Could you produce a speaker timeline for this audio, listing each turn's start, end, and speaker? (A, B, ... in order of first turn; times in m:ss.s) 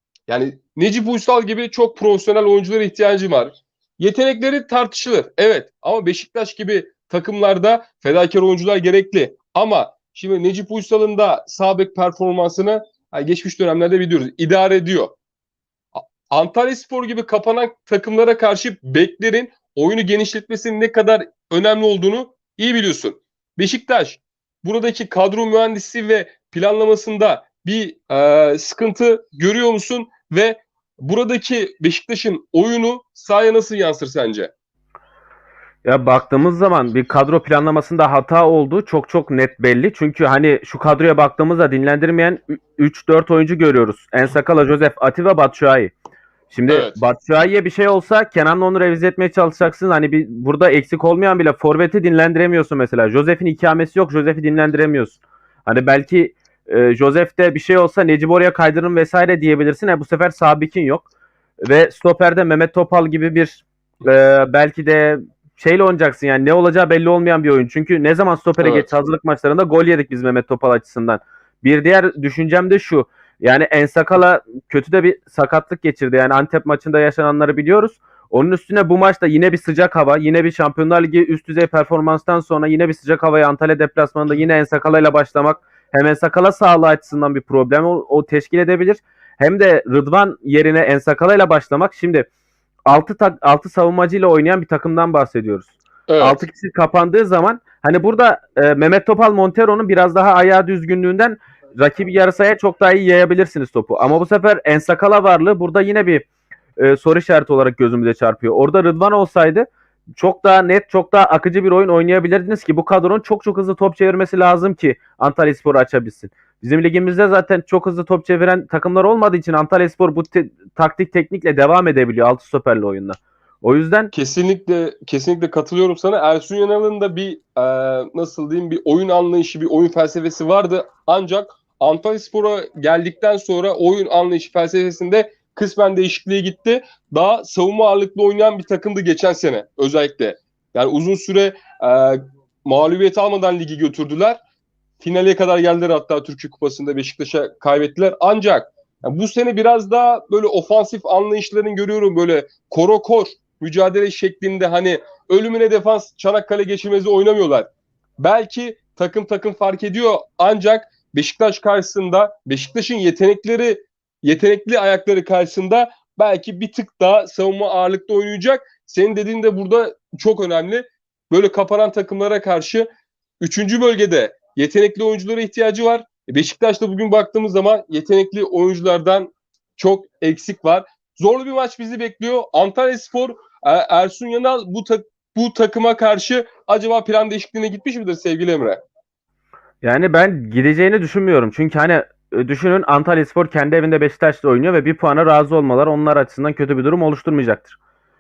0:00.3-0:15.2 A
0:16.0-0:34.5 A
0:35.8-0:45.9 B
0:46.5-1:01.0 B
0:46.7-0:47.0 A
1:01.6-1:32.3 B
1:08.6-1:08.9 A
1:32.8-1:46.3 B
1:36.1-1:36.4 A
1:46.8-2:04.1 B
2:04.1-2:24.4 A
2:25.0-2:52.9 A
2:53.4-3:08.8 A
3:09.8-3:17.8 B